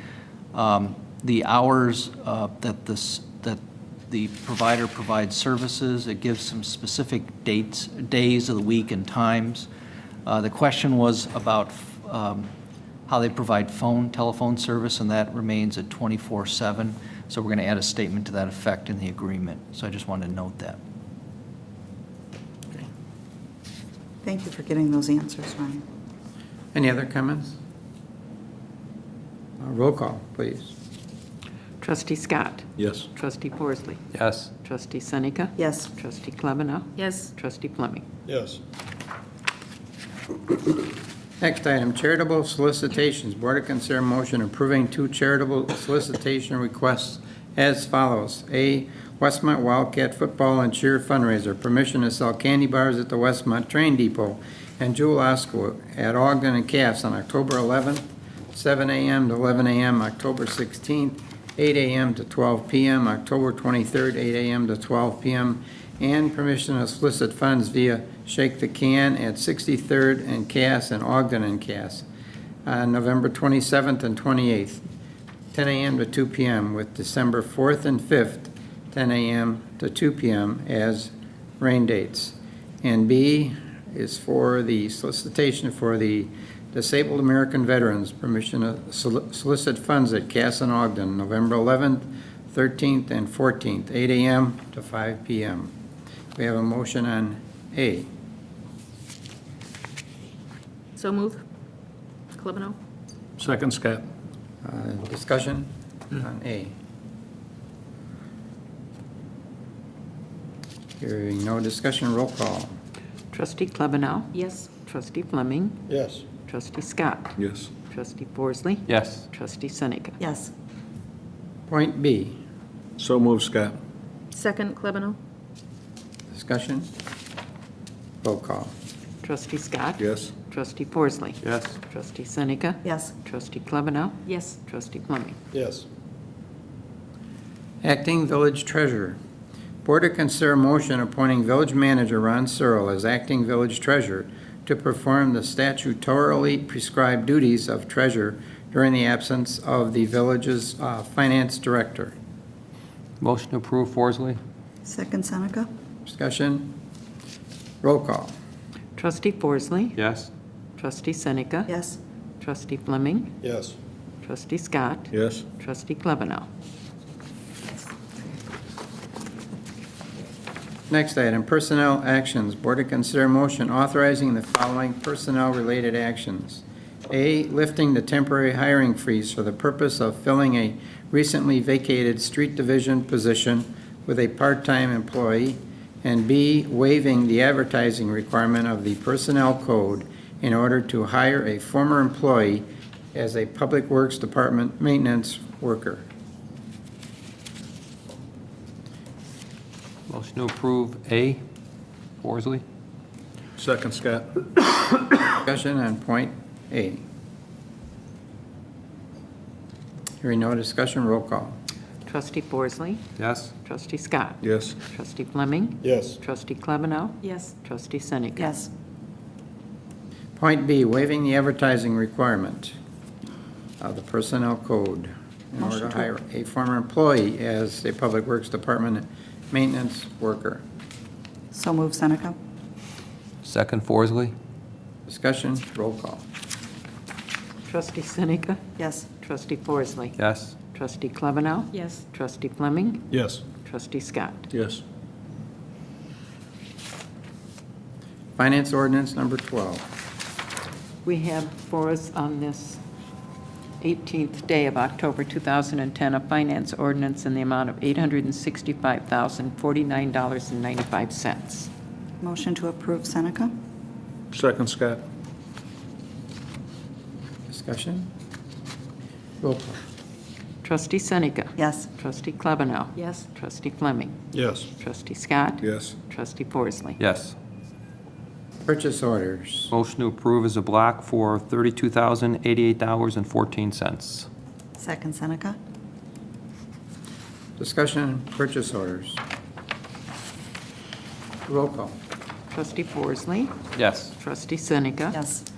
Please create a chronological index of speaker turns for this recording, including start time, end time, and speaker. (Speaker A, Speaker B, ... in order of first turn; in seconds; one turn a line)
Speaker A: 0.5-9.7
Speaker A: 10.2-12.5
Speaker A: 13.1-20.8
Speaker B: 24.2-25.8
Speaker C: 26.7-27.6
Speaker C: 29.6-30.7
Speaker D: 31.8-34.0
Speaker E: 32.8-33.1
Speaker F: 34.1-34.5
Speaker D: 34.6-38.0
Speaker B: 35.6-35.9
Speaker G: 37.0-37.3
Speaker E: 38.2-38.6
Speaker C: 41.4-72.0
Speaker C: 72.7-74.8
Speaker C: 75.5-95.7
Speaker C: 96.3-98.1
Speaker G: 101.0-101.4
Speaker G: 102.4-102.8
Speaker E: 103.4-104.0
Speaker C: 104.6-106.7
Speaker C: 111.0-112.8
Speaker D: 113.3-115.8
Speaker G: 114.3-114.7
Speaker E: 115.9-116.2
Speaker D: 116.4-117.4
Speaker E: 117.4-117.7
Speaker D: 117.9-120.2
Speaker F: 118.9-119.2
Speaker B: 120.2-120.5
Speaker C: 121.7-122.4
Speaker E: 123.0-123.7
Speaker G: 124.3-125.2
Speaker C: 126.3-126.9
Speaker C: 128.2-128.7
Speaker D: 129.2-135.4
Speaker E: 130.0-130.3
Speaker F: 131.4-131.8
Speaker B: 132.8-133.1
Speaker G: 134.2-134.6
Speaker E: 135.5-135.8
Speaker C: 137.8-139.2
Speaker C: 139.8-152.1
Speaker F: 153.2-154.4
Speaker B: 154.8-155.7
Speaker C: 156.0-156.8
Speaker C: 157.8-158.3
Speaker D: 158.9-160.0
Speaker F: 159.9-160.3
Speaker D: 160.8-161.7
Speaker B: 161.7-162.0
Speaker D: 162.4-163.3
Speaker E: 163.4-163.8
Speaker D: 164.2-166.5
Speaker E: 165.1-165.4
Speaker C: 170.9-196.0
Speaker F: 200.1-201.4
Speaker F: 202.2-202.6
Speaker E: 203.6-204.4
Speaker C: 205.3-207.0
Speaker C: 210.2-211.6
Speaker D: 212.1-213.0
Speaker F: 213.2-213.5
Speaker D: 213.6-218.5
Speaker E: 214.4-214.8
Speaker E: 215.8-216.2
Speaker G: 217.2-217.5
Speaker B: 218.4-218.7
Speaker C: 220.3-222.7
Speaker C: 223.8-230.6
Speaker B: 225.6-226.1
Speaker B: 231.5-232.3
Speaker F: 233.4-234.3
Speaker C: 235.1-236.2
Speaker D: 237.7-238.6
Speaker B: 238.8-239.1
Speaker D: 239.2-240.2
Speaker F: 240.2-240.6
Speaker D: 240.7-243.1
Speaker G: 241.7-242.0
Speaker E: 243.1-243.4
Speaker D: 243.6-244.4
Speaker E: 244.5-244.8
Speaker C: 248.4-249.8
Speaker D: 251.0-252.8
Speaker D: 253.8-261.7
Speaker B: 262.2-263.5
Speaker E: 264.3-265.0
Speaker C: 267.5-268.1
Speaker C: 269.4-269.8
Speaker D: 270.6-274.1
Speaker B: 271.6-271.9
Speaker G: 273.0-273.2
Speaker E: 274.3-274.7
Speaker D: 274.8-277.0
Speaker E: 275.6-275.9
Speaker F: 277.0-277.3
Speaker C: 278.6-279.7
Speaker F: 279.7-284.3
Speaker B: 284.8-285.6
Speaker C: 287.6-289.2
Speaker C: 291.4-291.9
Speaker D: 292.5-293.6
Speaker F: 293.7-294.1
Speaker D: 294.2-295.2
Speaker B: 295.1-295.4